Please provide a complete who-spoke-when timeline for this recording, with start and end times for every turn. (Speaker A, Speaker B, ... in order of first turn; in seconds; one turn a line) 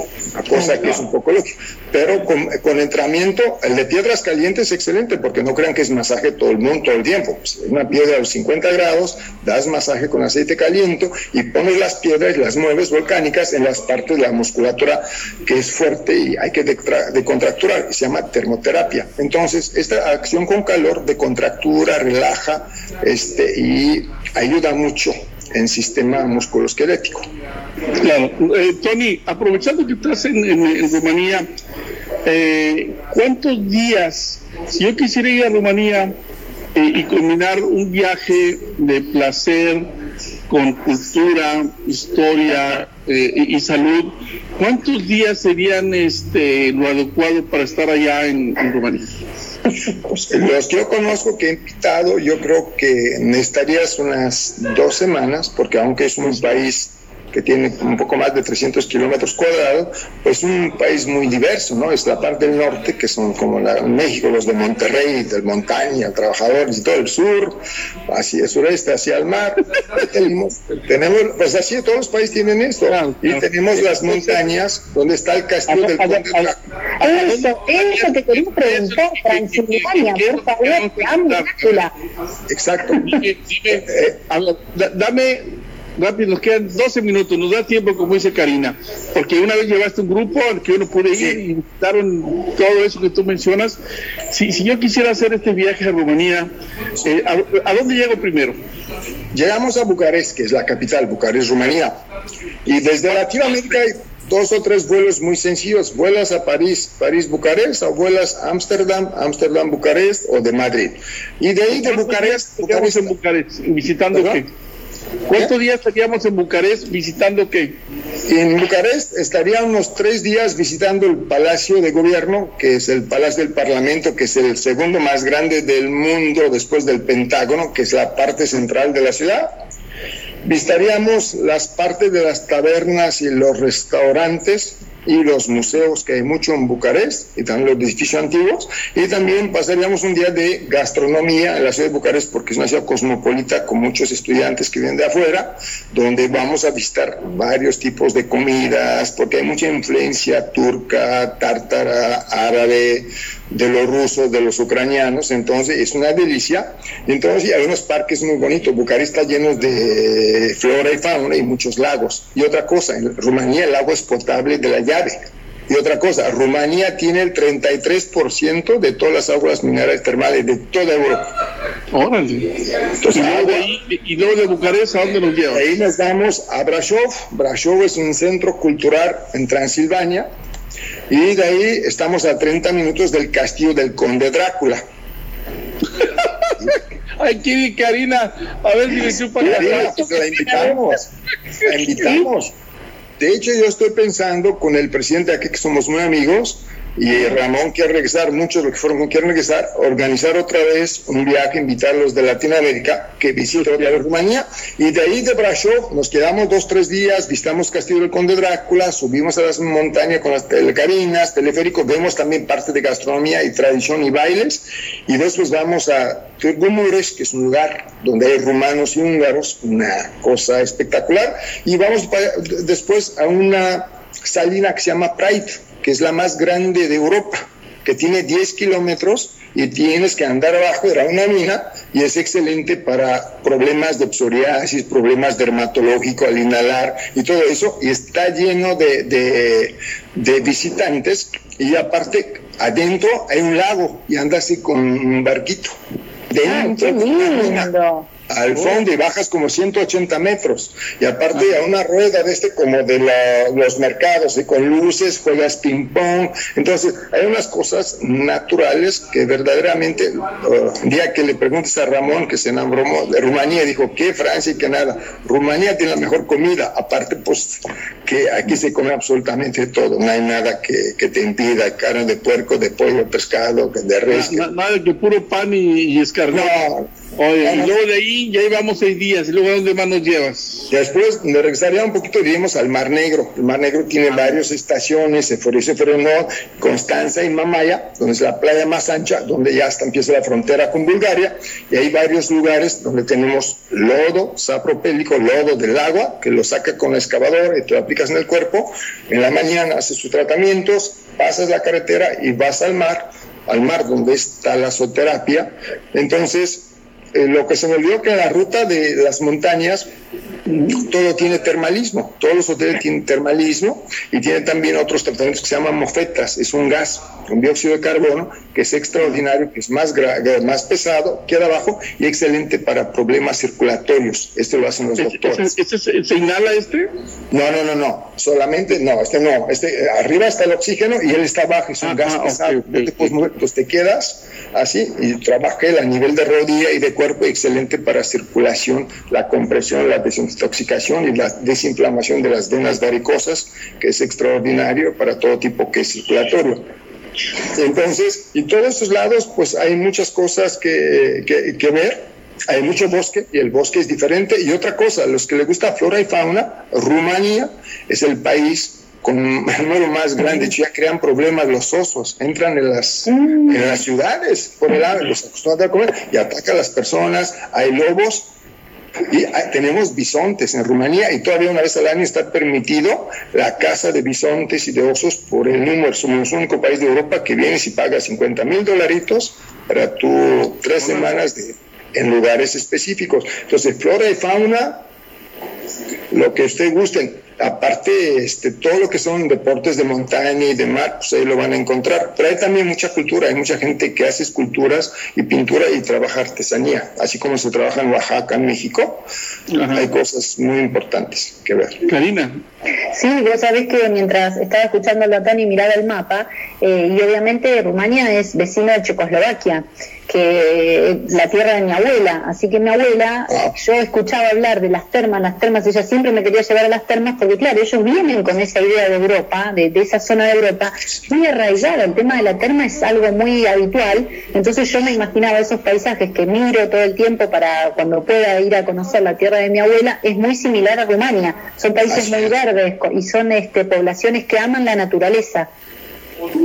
Speaker A: 0.3-27.3
Speaker B: 27.9-31.5
Speaker B: 32.2-36.2
Speaker B: 36.7-39.9
Speaker B: 40.5-49.1
Speaker A: 49.9-76.6
Speaker B: 72.8-74.4
Speaker C: 75.7-76.4
Speaker C: 77.0-81.9
Speaker B: 77.0-81.8
Speaker A: 82.5-83.2
Speaker B: 83.0-98.6
Speaker A: 83.7-84.2
Speaker A: 91.1-91.4
Speaker A: 99.3-102.0
Speaker A: 102.6-113.1
Speaker B: 111.7-114.5
Speaker A: 114.1-114.4
Speaker B: 115.3-117.8
Speaker A: 118.2-129.5
Speaker A: 130.4-171.3
Speaker B: 171.9-172.6
Speaker A: 172.9-173.7
Speaker B: 173.1-175.7
Speaker A: 175.5-180.3
Speaker A: 181.1-184.8
Speaker B: 187.2-190.8
Speaker A: 189.4-191.1
Speaker A: 191.6-192.5
Speaker A: 193.2-245.8
Speaker A: 246.3-247.7
Speaker C: 246.4-248.1
Speaker A: 248.3-274.5
Speaker B: 274.1-276.6
Speaker A: 276.3-277.8
Speaker B: 277.2-280.6
Speaker A: 280.7-309.9
Speaker B: 310.5-310.8
Speaker A: 310.7-325.5
Speaker B: 325.0-326.9
Speaker A: 327.3-346.7
Speaker B: 331.8-333.1
Speaker A: 347.5-368.3
Speaker A: 369.1-384.8
Speaker A: 386.1-399.1
Speaker B: 399.5-399.9
Speaker A: 399.7-401.9
Speaker B: 401.9-402.3
Speaker C: 402.9-435.5
Speaker A: 413.3-413.5
Speaker A: 431.8-432.3